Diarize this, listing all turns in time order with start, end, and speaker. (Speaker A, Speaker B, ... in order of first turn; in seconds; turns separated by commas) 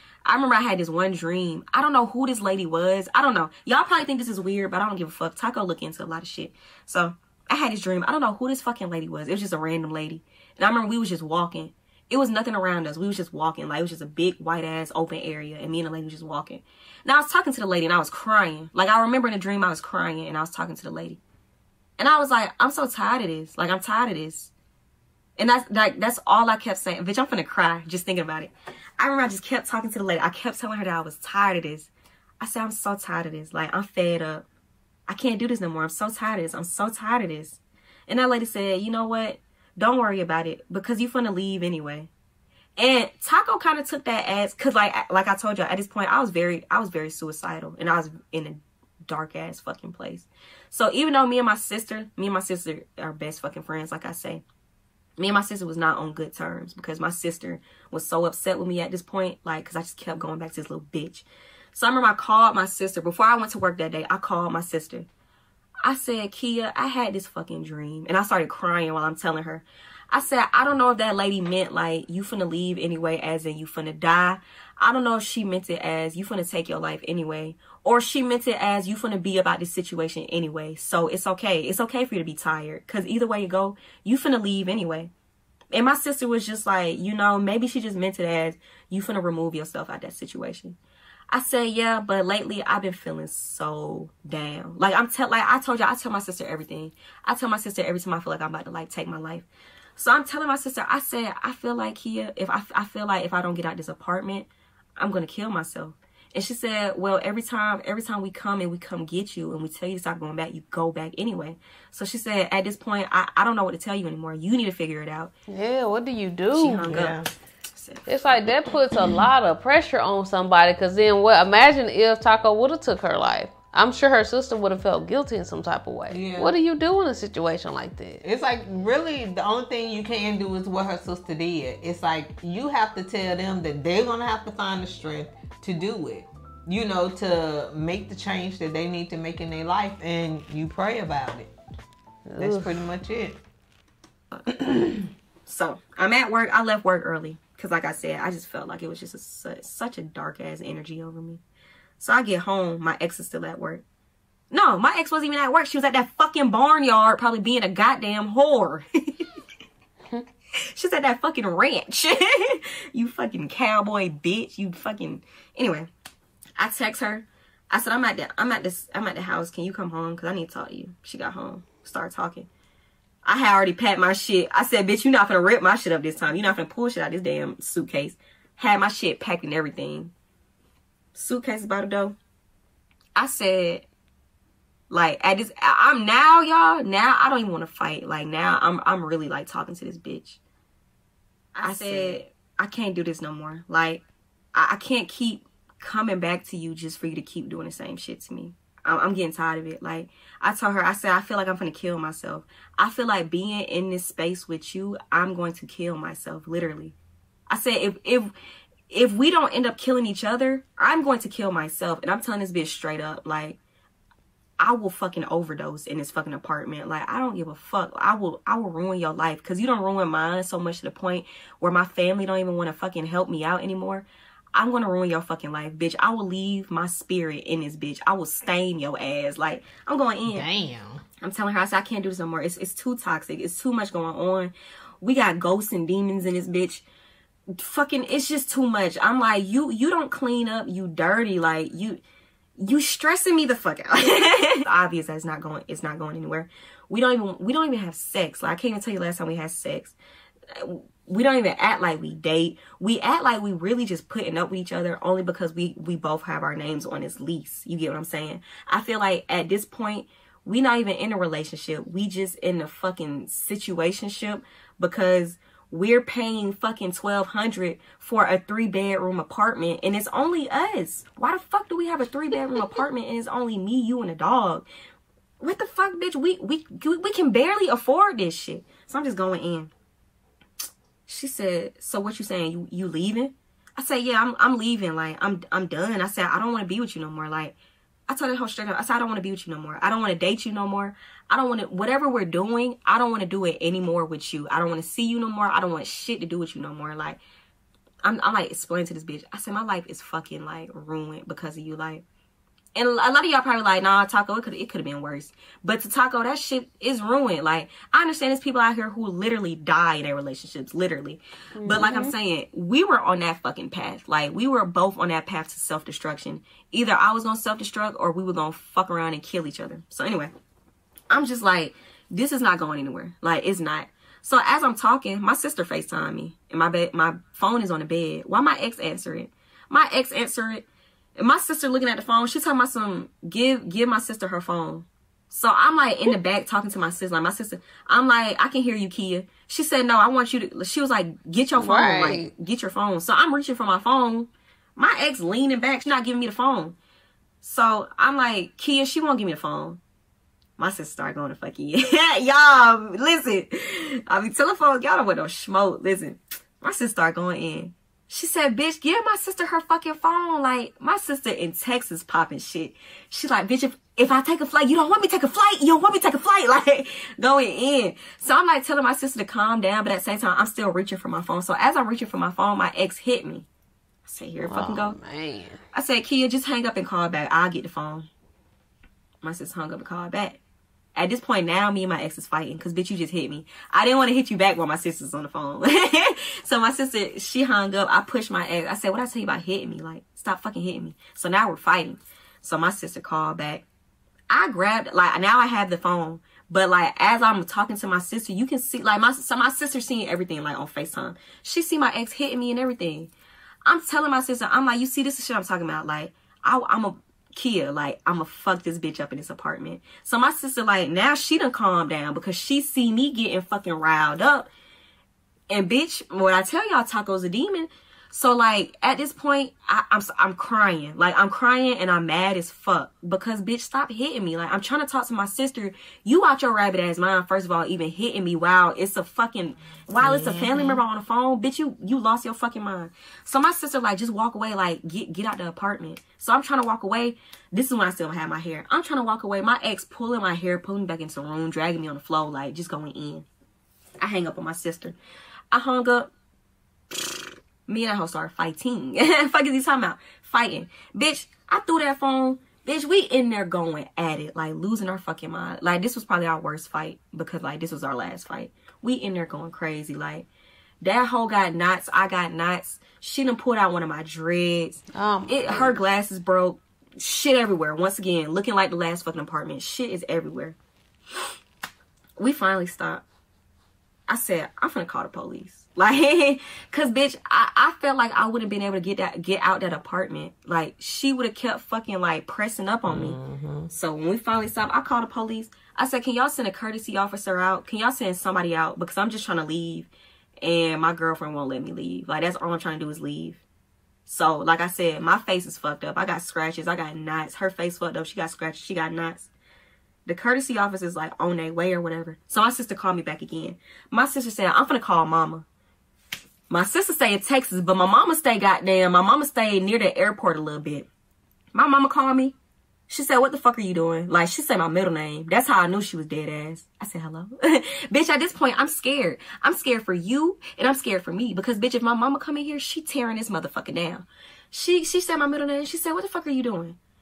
Speaker A: 0.2-21.2, Speaker A: 22.0-24.5, Speaker A: 25.4-34.4, Speaker A: 35.1-42.1, Speaker A: 42.8-54.4, Speaker A: 55.2-65.1, Speaker A: 65.8-85.1, Speaker A: 85.7-90.8, Speaker A: 91.3-115.3, Speaker B: 115.5-116.9, Speaker A: 116.5-118.5, Speaker C: 116.9-117.3, Speaker B: 118.1-128.2, Speaker C: 126.1-126.5, Speaker C: 128.2-141.5, Speaker B: 142.3-142.8, Speaker C: 142.4-143.4, Speaker C: 144.5-145.1, Speaker A: 145.5-151.4, Speaker A: 152.0-153.8, Speaker A: 154.5-159.1, Speaker A: 160.8-165.9, Speaker A: 166.6-172.5, Speaker A: 173.2-180.1, Speaker A: 181.2-182.2, Speaker A: 183.2-183.8, Speaker A: 184.9-190.4, Speaker A: 191.6-194.0, Speaker C: 191.6-192.2, Speaker A: 194.5-206.9, Speaker A: 207.5-208.3, Speaker A: 208.9-213.6, Speaker A: 214.6-230.5, Speaker C: 230.3-231.0, Speaker A: 231.2-236.8, Speaker A: 237.5-242.0, Speaker A: 242.6-249.9, Speaker A: 250.5-274.6, Speaker A: 275.4-279.7, Speaker A: 281.1-287.6, Speaker A: 288.1-297.2, Speaker A: 298.0-302.0, Speaker A: 302.8-320.3, Speaker B: 311.6-312.1, Speaker A: 321.1-330.6, Speaker A: 331.2-346.8, Speaker B: 341.6-342.3, Speaker A: 347.4-349.8, Speaker A: 350.6-373.5, Speaker A: 374.1-375.0, Speaker B: 374.4-375.6, Speaker A: 375.7-378.1, Speaker A: 379.2-380.4, Speaker A: 381.0-393.6, Speaker A: 394.3-403.1, Speaker A: 403.6-414.5, Speaker A: 415.5-443.3, Speaker C: 430.0-430.8, Speaker A: 444.0-444.9, Speaker A: 445.5-446.1, Speaker A: 446.9-460.3, Speaker A: 460.8-470.6, Speaker B: 464.9-465.8, Speaker A: 472.2-473.0, Speaker A: 474.1-483.2, Speaker C: 482.9-483.7, Speaker A: 483.7-489.9, Speaker A: 490.4-493.4, Speaker A: 494.1-499.3, Speaker A: 500.1-505.4, Speaker A: 506.5-510.9, Speaker A: 511.5-512.3, Speaker A: 512.9-526.8